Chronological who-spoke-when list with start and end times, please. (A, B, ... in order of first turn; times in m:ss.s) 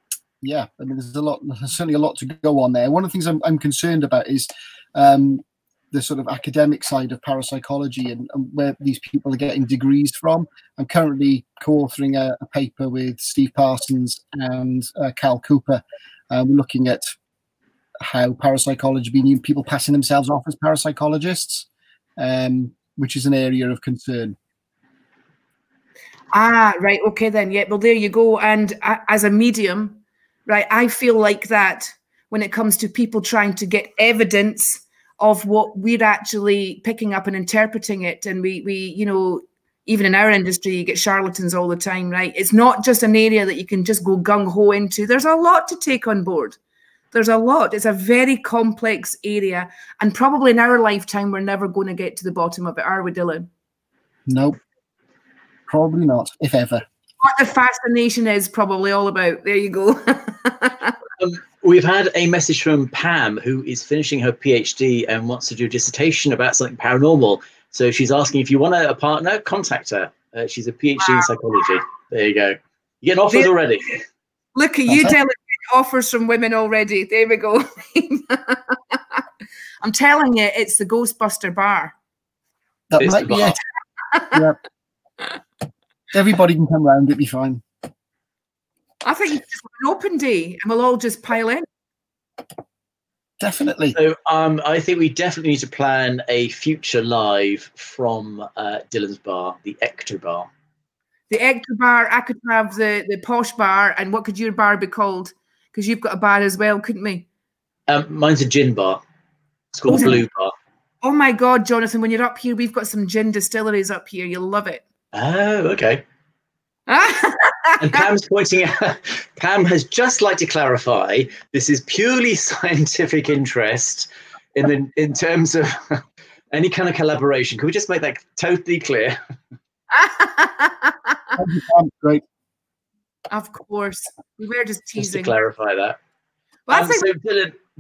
0:00.4-0:17.1 A
0:18.0-0:24.4 A
0:26.3-0:46.6 B
0:47.1-0:53.5 B
0:54.3-0:54.6 A
0:55.7-0:56.8 A
0:57.2-1:01.0 B
1:01.2-1:14.0 C
1:11.0-1:11.3 B
1:14.6-1:19.2 B
1:14.9-1:15.1 A
1:19.8-1:21.9 B
1:22.9-1:23.6 A
1:23.0-1:23.6 C
1:24.1-1:24.4 B
1:24.3-1:24.6 A
1:26.1-1:27.6 A
1:29.0-1:31.6 B
1:33.4-1:34.0 A
1:33.9-1:40.5 C
1:41.3-1:47.2 B
1:47.9-1:49.0 C
1:49.7-1:50.5 C
1:49.9-1:50.2 B
1:51.0-1:54.8 B
1:55.1-1:56.0 C
1:56.9-1:58.0 B
1:57.8-2:09.2 C
2:09.9-2:11.1 B
2:11.4-2:12.2 A
2:13.3-2:15.4 B
2:15.0-2:16.0 C
2:16.7-2:17.0 B
2:16.7-2:17.6 C